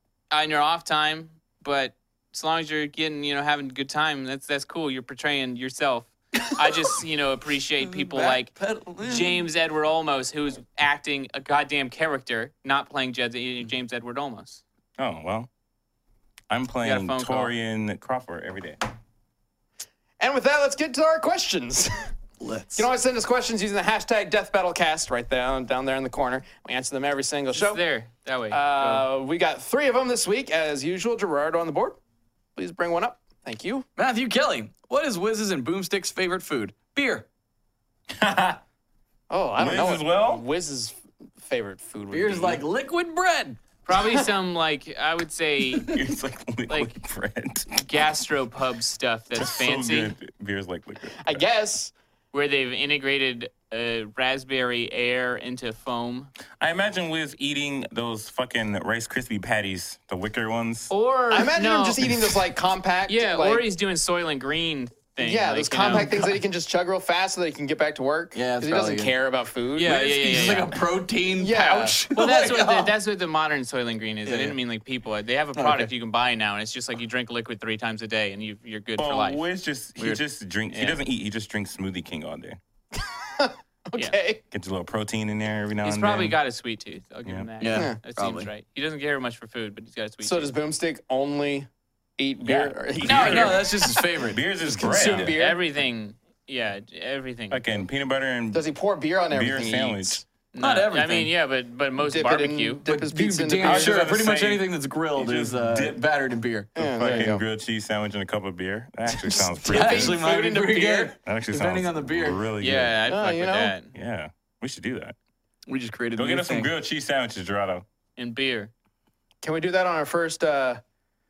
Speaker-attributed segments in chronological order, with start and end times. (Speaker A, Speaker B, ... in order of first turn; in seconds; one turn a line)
Speaker A: 0.3-14.6
Speaker B: 7.8-9.4
Speaker C: 15.0-15.5
Speaker C: 16.5-18.8
Speaker A: 16.8-17.5
Speaker D: 20.2-22.1
Speaker B: 22.4-22.9
Speaker D: 22.8-27.8
Speaker A: 27.5-29.0
Speaker D: 28.5-32.0
Speaker D: 32.5-33.9
Speaker B: 34.0-37.2
Speaker C: 38.1-38.6
Speaker D: 39.3-42.6
Speaker C: 39.6-40.4
Speaker B: 42.1-43.6
Speaker A: 43.9-46.0
Speaker C: 45.8-47.8
Speaker A: 46.7-46.9
Speaker A: 47.7-50.1
Speaker C: 49.3-51.4
Speaker D: 51.2-51.9
Speaker A: 52.3-56.3
Speaker C: 56.6-60.9
Speaker A: 60.9-62.1
Speaker D: 61.3-63.6
Speaker A: 63.1-66.1
Speaker D: 65.2-70.7
Speaker B: 65.8-66.4
Speaker B: 68.3-69.1
Speaker A: 69.8-70.8
Speaker B: 69.8-72.9
Speaker D: 71.4-72.0
Speaker A: 72.1-79.4
Speaker B: 74.2-74.6
Speaker B: 75.5-75.9
Speaker C: 79.0-82.6
Speaker A: 80.7-81.0
Speaker D: 82.9-84.4
Speaker C: 84.5-86.4
Speaker A: 85.8-90.5
Speaker B: 87.6-88.5
Speaker D: 90.2-93.8
Speaker C: 92.4-95.4
Speaker B: 93.0-94.4
Speaker D: 94.7-95.6
Speaker A: 94.9-97.6
Speaker C: 97.5-98.6
Speaker D: 98.5-100.2
Speaker C: 99.3-100.2
Speaker A: 100.5-102.8
Speaker B: 100.6-101.3
Speaker D: 102.0-104.0
Speaker B: 102.8-107.3
Speaker C: 103.6-106.0
Speaker D: 106.7-107.4
Speaker C: 106.8-110.2
Speaker D: 109.1-111.1
Speaker B: 109.6-112.4
Speaker C: 111.2-113.0
Speaker A: 112.6-113.9
Speaker D: 113.0-113.7
Speaker C: 113.9-115.2
Speaker B: 115.7-116.7
Speaker C: 116.2-117.8
Speaker A: 118.2-118.7
Speaker D: 119.4-120.8